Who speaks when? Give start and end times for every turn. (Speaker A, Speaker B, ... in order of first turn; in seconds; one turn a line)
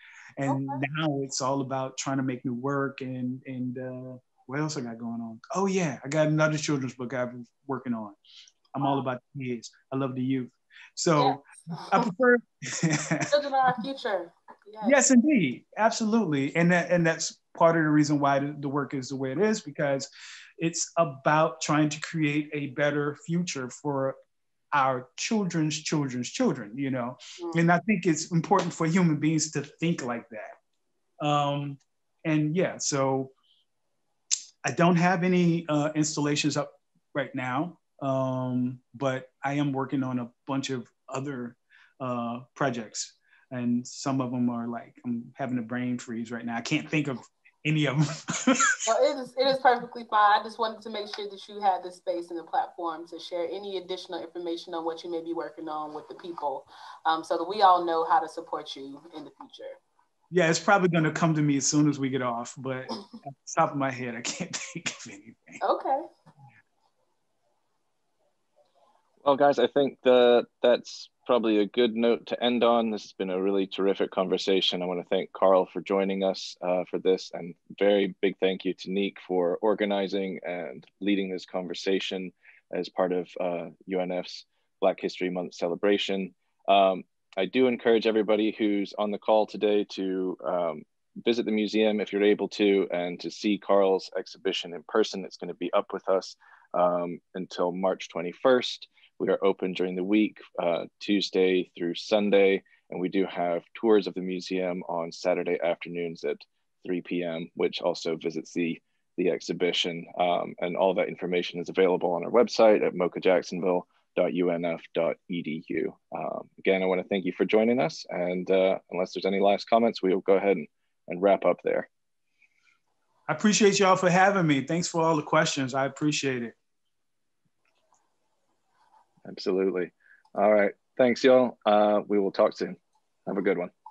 Speaker A: 0.4-8.2
Speaker B: 0.5-0.8
Speaker A: 8.7-13.4
Speaker B: 11.2-12.1
Speaker B: 13.3-15.0
Speaker A: 14.8-24.2
Speaker A: 24.7-30.5
Speaker B: 27.4-27.7
Speaker A: 31.2-33.3
Speaker A: 34.6-48.8
Speaker B: 48.9-59.8
Speaker A: 60.3-65.6
Speaker B: 65.6-66.0
Speaker C: 69.2-121.9
Speaker A: 123.3-126.6
Speaker C: 129.2-133.7